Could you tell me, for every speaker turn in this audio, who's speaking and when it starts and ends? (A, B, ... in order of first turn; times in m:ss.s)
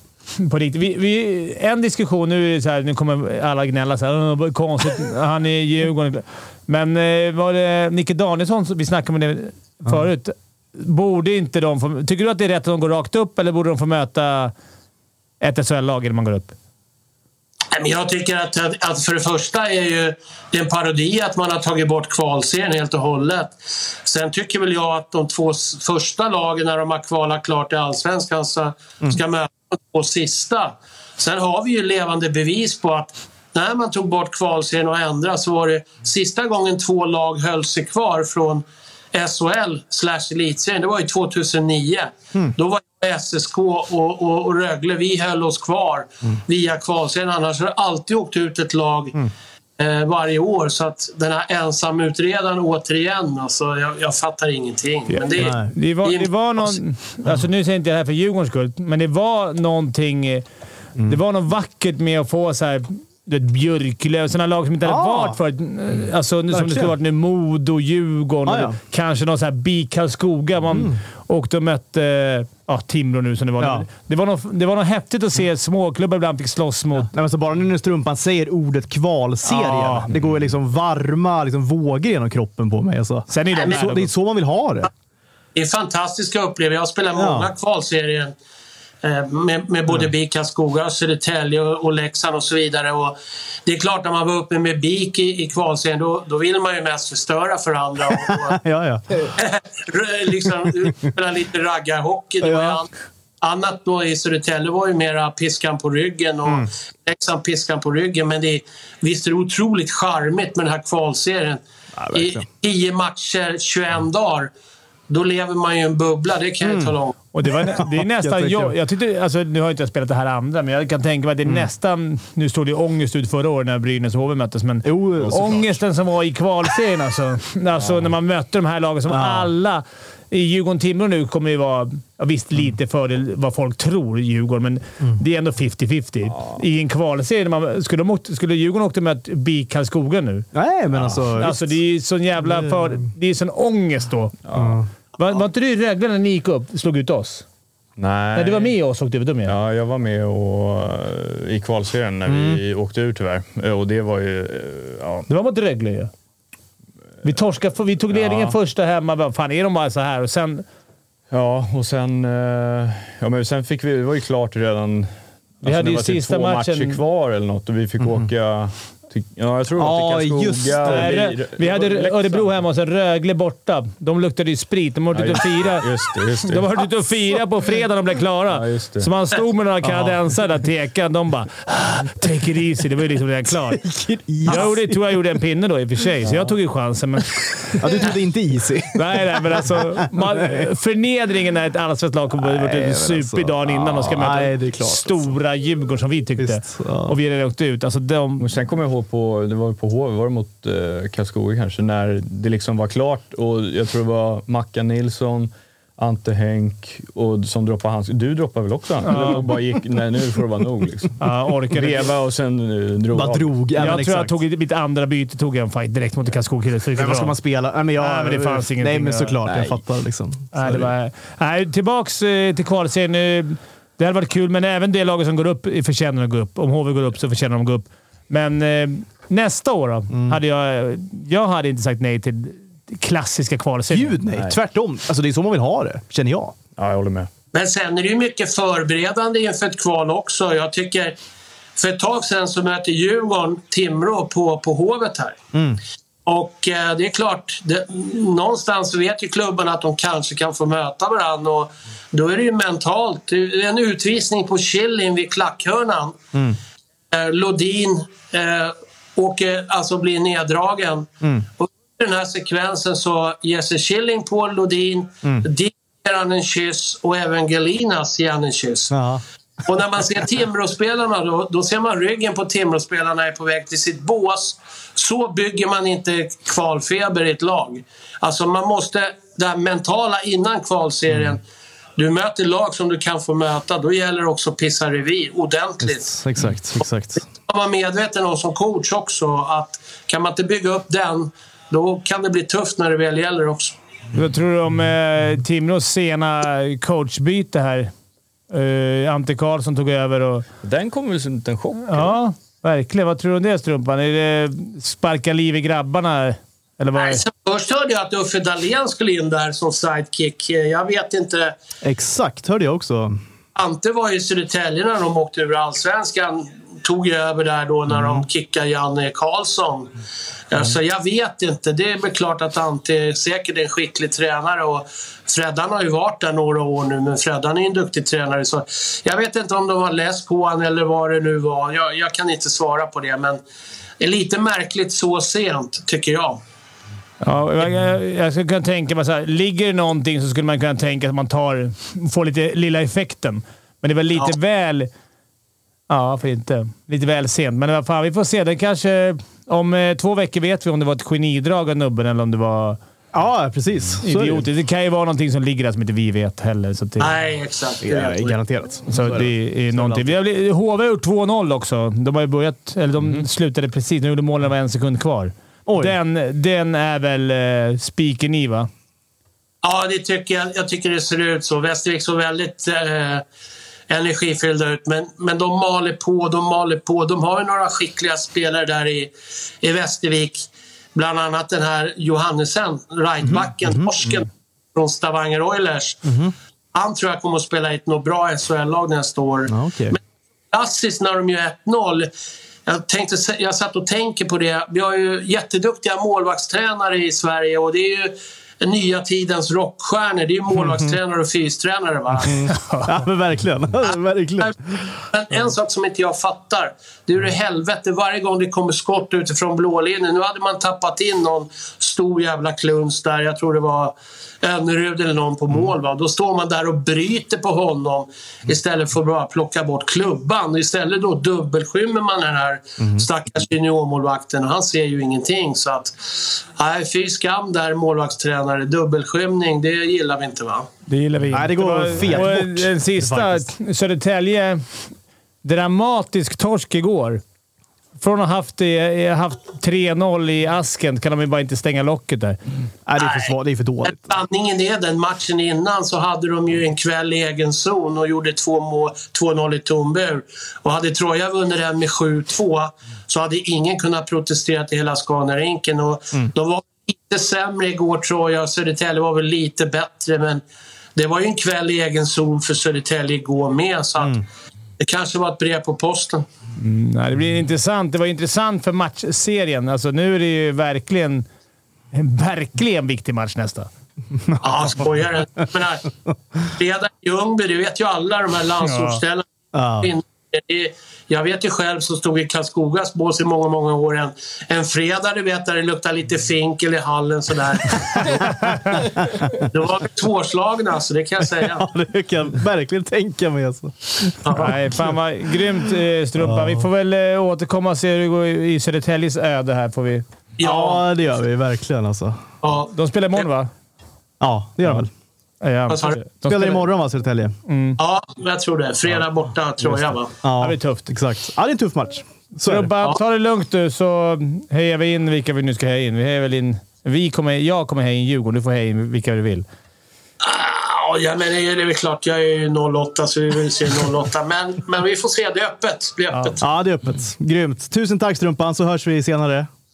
0:00.4-0:14.5 A
0:15.4-0:16.5 A
0:17.7-0:49.2 B
0:49.8-0:56.8 B
0:55.1-1:00.4 A
0:55.4-0:55.7 C
1:01.1-1:17.1 A
1:04.8-1:05.4 C
1:06.5-1:07.0 C
1:08.5-1:08.8 C
1:10.7-1:11.0 C
1:13.6-1:13.9 C
1:17.1-1:24.9 C
1:19.4-1:20.1 A
1:23.3-1:24.1 A
1:23.5-1:23.8 B
1:25.6-1:28.3 B
1:27.2-1:27.5 C
1:29.0-1:38.6 B
1:38.3-1:39.3 C
1:39.4-1:42.9 B
1:42.4-1:42.8 C
1:43.4-1:51.6 B
1:52.0-1:52.4 C
1:52.1-1:54.5 B
1:55.1-1:57.2 B
1:56.6-1:58.8 C
1:57.3-2:20.5 A
2:04.8-2:05.7 C
2:09.1-2:09.5 C
2:20.5-2:21.7 C
2:20.9-2:21.2 D
2:21.4-2:24.4 A
2:24.4-2:24.8 D
2:24.5-2:24.9 C
2:25.2-2:27.4 A
2:28.0-2:28.7 D
2:28.4-2:29.5 A
2:29.5-2:35.3 D
2:32.3-2:32.6 C
2:35.3-2:36.1 A
2:37.2-2:40.6 A
2:38.1-2:38.6 D
2:41.3-2:52.6 D
2:45.6-2:47.0 A
2:48.0-2:48.3 C
2:49.8-2:51.2 C
2:50.8-3:03.8 A
2:55.1-2:56.7 D
2:58.5-2:59.1 D
2:59.8-3:00.2 C
3:03.7-3:05.0 C
3:04.4-3:07.8 A
3:07.8-3:10.7 C
3:09.0-3:18.5 A
3:12.4-3:15.3 C
3:16.4-3:17.2 C
3:18.4-3:33.6 D
3:29.0-3:29.5 A
3:31.2-3:32.1 A
3:33.1-3:34.4 C
3:33.8-3:37.4 A
3:37.0-3:40.9 C
3:38.0-3:39.4 A
3:39.5-3:39.8 D
3:40.5-3:54.2 A
3:50.1-3:50.4 C
3:53.9-3:56.6 C
3:56.8-3:57.3 D
3:57.5-4:01.2 B
4:01.8-4:05.4 B
4:05.5-4:05.8 C
4:06.3-4:16.2 B
4:17.1-4:28.9 B
4:28.9-4:29.2 C
4:29.6-4:41.4 B
4:42.0-4:46.1 B
4:45.8-4:47.3 C
4:47.4-4:53.8 B
4:54.2-4:57.9 A
4:58.5-5:00.4 A
5:00.6-5:02.2 D
5:01.8-5:07.2 A
5:07.0-5:11.6 B
5:11.8-5:13.2 C
5:13.6-5:20.0 B
5:20.5-5:33.4 B
5:34.0-5:36.4 B
5:37.2-5:44.9 A
5:45.9-5:52.8 A
5:53.1-5:54.5 C
5:54.0-5:57.1 A
5:57.0-5:58.4 B
5:57.8-6:00.2 C
5:58.9-6:08.7 A
6:05.7-6:06.0 C
6:09.6-6:13.2 B
6:13.9-6:26.0 B
6:23.2-6:23.9 C
6:26.0-6:26.3 C
6:26.7-6:30.0 B
6:29.5-6:30.0 C
6:30.5-6:32.1 B
6:32.7-6:42.5 B
6:40.6-6:40.9 C
6:42.2-6:44.9 C
6:42.5-6:42.9 A
6:45.1-7:10.7 B
7:02.8-7:03.1 C
7:10.9-7:14.8 A
7:11.3-7:13.5 C
7:15.4-7:17.2 A
7:18.0-7:22.4 A
7:22.9-7:24.2 C
7:23.0-7:23.3 B
7:23.9-7:40.4 B
7:41.0-7:44.2 B
7:44.8-7:46.3 B
7:46.6-7:51.3 A
7:51.9-7:53.7 A
7:54.4-7:55.9 B
7:56.4-7:59.3 B
7:58.6-7:59.0 A
7:59.5-7:59.9 C
7:59.8-8:08.3 B
8:08.1-8:09.5 C
8:08.5-8:08.8 A
8:09.4-8:11.6 B
8:11.2-8:14.6 C
8:14.2-8:14.5 B
8:14.3-8:20.0 A
8:16.2-8:16.7 C
8:20.4-8:20.8 B
8:20.4-8:22.2 C
8:22.4-8:22.7 B
8:22.7-8:23.5 A
8:24.2-8:24.9 C
8:25.4-8:26.7 A
8:25.7-8:26.0 B
8:26.3-8:27.4 C
8:27.5-8:27.8 A
8:27.8-8:30.1 B
8:29.6-8:30.9 A
8:30.2-8:32.7 C
8:32.4-8:39.4 A
8:40.2-8:46.4 B
8:46.4-8:49.5 C